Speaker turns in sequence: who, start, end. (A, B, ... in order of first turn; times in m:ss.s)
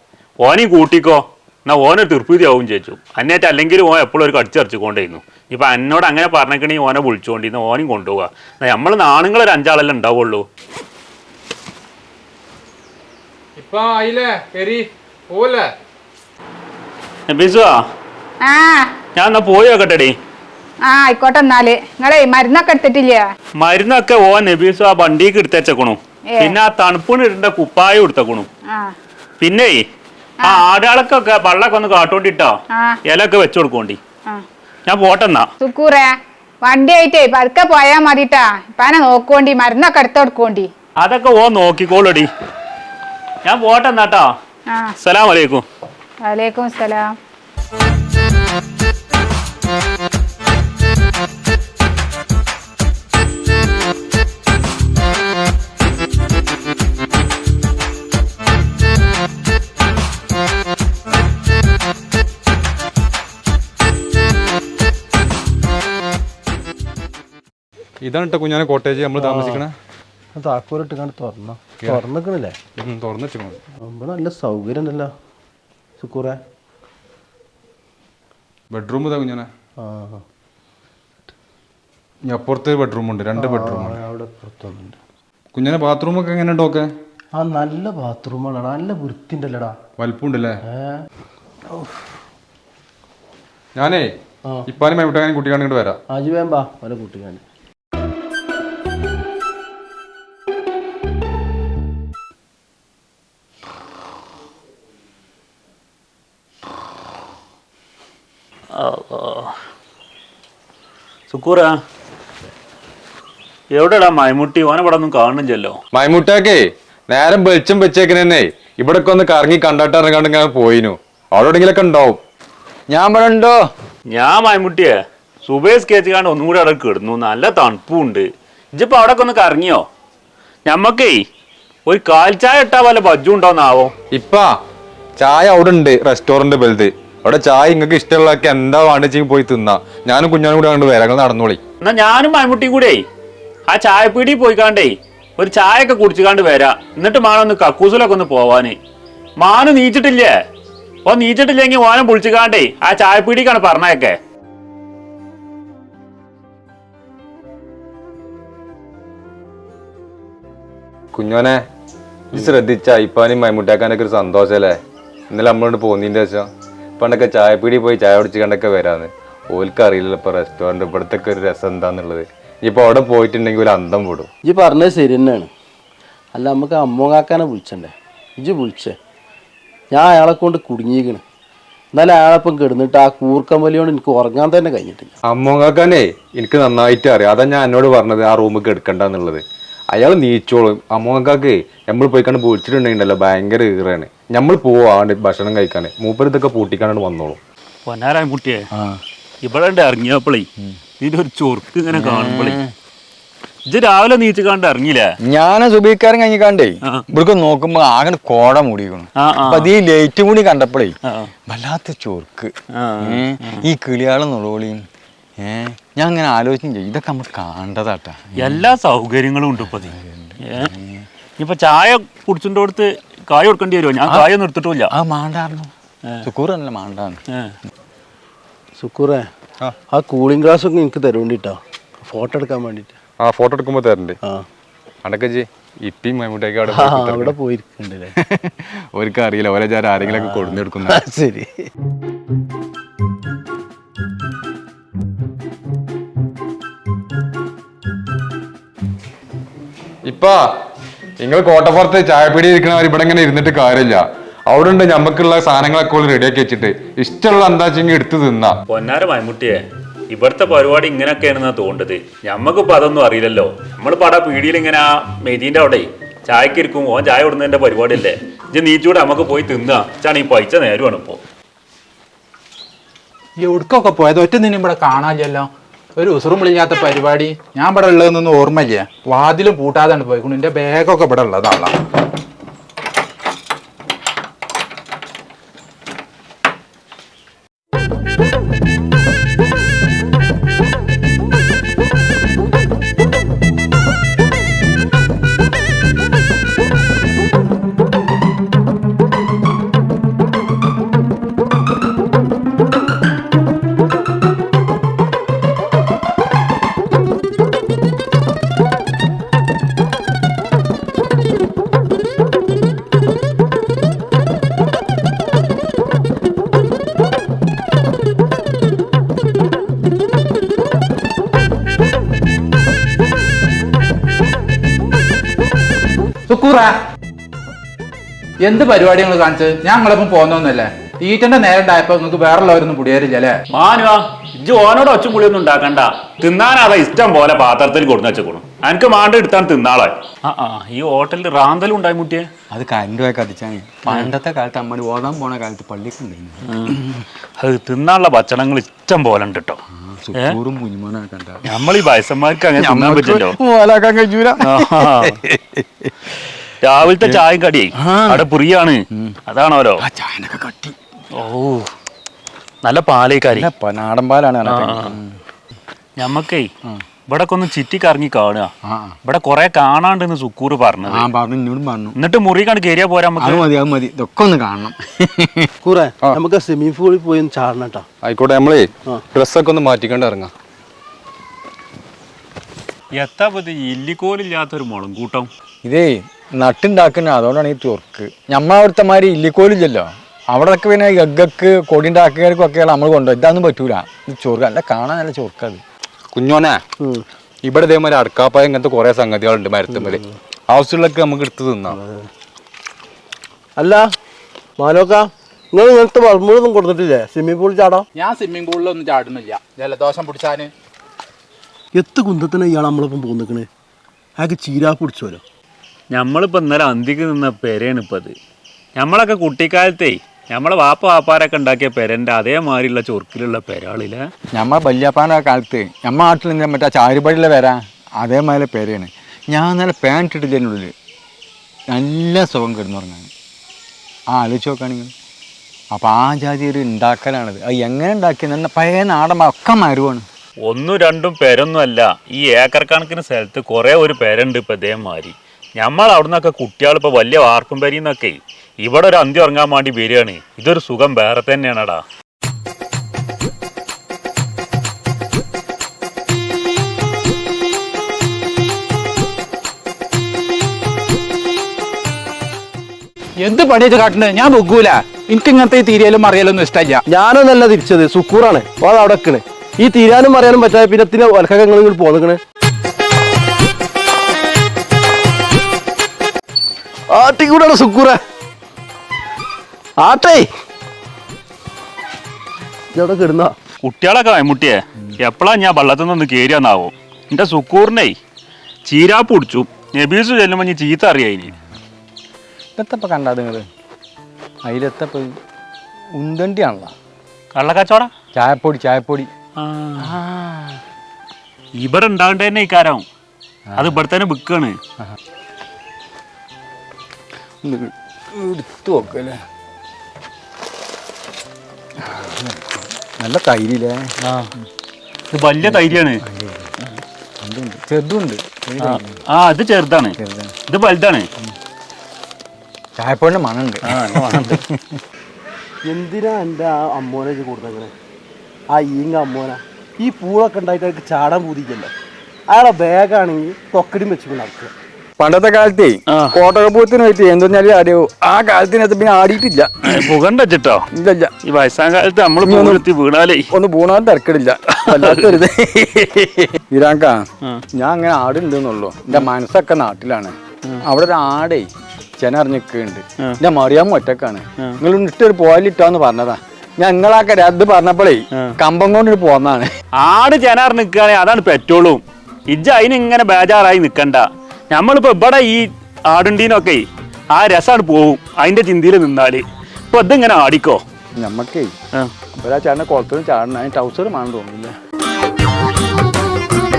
0:00.4-0:10.4 A
0:13.6-0:14.8 B
0:15.3-0:15.7 B
0:17.3-0:17.8 A
0:18.4-0:18.9 C
0:19.2-0:20.1 A
0:20.8-0:23.3 C
0:23.6-0:28.5 A
0:26.3-0:26.6 C
0:28.7-0:28.9 C
0:29.4-0:29.8 A
0:30.4-0:32.5 A
0:32.7-0:33.0 C
0:33.1-0:34.0 A
0:34.9-0:35.5 A
0:35.6-0:40.7 C
0:41.0-0:42.3 A
0:43.4-0:44.3 A
0:44.7-0:44.9 C
0:45.0-0:45.6 A
0:46.2-0:47.2 C
1:08.0-1:09.7 D
1:09.2-1:09.6 E
1:10.3-1:12.5 E
1:12.8-1:13.6 D
1:13.8-1:15.1 E
1:16.0-1:16.4 E
1:18.7-1:19.5 D
1:19.8-1:20.2 E
1:22.3-1:24.0 D
1:23.3-1:25.0 E
1:25.5-1:26.9 D
1:27.3-1:29.8 E
1:30.0-1:30.5 D
1:30.7-1:31.0 E
1:33.8-1:34.0 D
1:34.7-1:36.0 D
1:36.1-1:37.4 E
1:48.7-1:49.5 A
1:51.3-1:51.7 A
1:53.7-1:55.8 A
1:55.9-1:56.6 D
1:57.1-2:02.2 D
2:02.9-2:03.6 F
2:04.1-2:09.8 A
2:10.6-2:11.2 A
2:11.9-2:13.9 A
2:14.1-2:14.4 D
2:15.2-2:21.6 D
2:21.8-2:23.0 A
2:23.7-2:28.8 A
2:29.4-2:30.3 A
2:31.0-2:34.2 A
2:41.1-2:41.6 D
2:42.3-2:44.7 D
2:45.3-2:46.5 D
2:47.0-2:54.3 D
2:54.4-2:55.5 E
2:56.3-2:58.9 E
2:59.9-3:01.2 E
3:01.9-3:05.1 E
3:05.3-3:17.4 D
3:17.8-3:18.7 A
3:18.7-3:19.0 F
3:19.4-3:20.5 A
3:21.0-3:22.6 A
3:21.9-3:22.7 F
3:23.7-3:25.1 A
3:25.3-3:31.0 F
3:29.2-3:29.7 A
3:31.0-3:31.3 A
3:31.5-3:34.8 F
3:32.7-3:33.6 A
3:35.4-3:38.6 F
3:38.4-3:40.7 A
3:39.6-3:41.1 F
3:41.4-3:44.9 A
3:44.0-3:44.3 F
3:44.9-3:45.7 F
3:46.2-3:47.2 F
3:48.8-3:49.2 E
3:49.9-3:52.9 E
3:53.2-3:54.2 D
3:55.0-3:57.3 D
3:56.6-3:58.1 E
3:58.9-4:01.0 D
4:00.0-4:01.7 E
4:10.1-4:10.4 D
4:11.2-4:18.6 D
4:18.7-4:31.2 A
4:33.4-4:41.7 B
5:26.3-5:26.7 B
5:28.4-5:33.3 B
5:33.5-5:42.3 A
5:42.5-5:47.0 F
5:43.9-5:44.1 A
5:46.4-5:46.8 A
5:47.4-5:49.6 A
5:49.7-5:51.5 F
5:51.4-5:53.4 A
5:52.6-5:55.9 F
5:54.4-5:55.2 A
5:56.6-5:59.8 A
5:56.8-5:57.2 F
5:57.8-5:58.3 F
5:58.9-5:59.2 F
5:59.8-6:00.8 F
6:01.2-6:01.7 A
6:02.6-6:03.5 A
6:03.3-6:05.2 F
6:04.4-6:05.0 A
6:06.0-6:06.5 A
6:07.1-6:08.5 A
6:08.6-6:09.0 F
6:09.0-6:11.1 A
6:10.9-6:12.0 F
6:12.0-6:13.4 A
6:13.2-6:15.5 F
6:15.6-6:17.8 E
6:18.0-6:20.3 D
6:23.0-6:25.3 A
6:25.6-6:35.6 F
6:36.1-6:36.6 D
6:37.4-6:41.8 D
6:39.7-6:40.1 E
6:41.7-6:42.1 E
6:43.6-6:43.8 E
6:44.6-6:47.8 E
6:48.0-6:50.5 B
6:51.8-6:53.5 E
6:54.2-6:55.2 E
6:55.9-6:58.1 A
6:58.8-7:04.0 A
7:04.3-7:10.7 F
7:11.7-7:13.1 F
7:14.1-7:14.9 F
7:15.7-7:20.0 F
7:20.4-7:31.8 A
7:43.2-7:46.8 B
7:46.9-7:52.2 E
7:56.9-7:58.0 E
7:59.8-8:00.3 E
8:02.7-8:03.3 E
8:03.6-8:07.9 A
8:08.7-8:11.3 A
8:12.6-8:13.4 F
8:14.4-8:15.1 F
8:15.9-8:16.7 F
8:17.3-8:17.9 A
8:18.1-8:19.1 F
8:19.4-8:19.9 A
8:19.8-8:20.6 F
8:21.6-8:22.8 A
8:23.5-8:23.8 F
8:23.6-8:24.6 A
8:27.4-8:29.2 F
8:31.8-8:33.9 F
8:34.0-8:34.3 A
8:35.1-8:36.0 A
8:35.4-8:39.0 F
8:38.6-8:40.0 A
8:40.0-8:40.3 F
8:40.5-8:41.1 A
8:42.8-8:44.8 F
8:43.6-8:44.4 A
8:45.7-8:47.7 E
8:48.5-8:51.7 E
8:52.3-8:54.5 E
8:55.0-8:59.9 F
8:55.9-8:56.1 A
8:59.6-9:00.7 A
9:00.7-9:01.1 F
9:01.2-9:03.3 A
9:02.2-9:02.6 F
9:03.3-9:19.5 F
9:04.5-9:05.2 A
9:19.8-9:30.6 A
9:31.0-9:31.5 F
9:32.2-9:34.5 F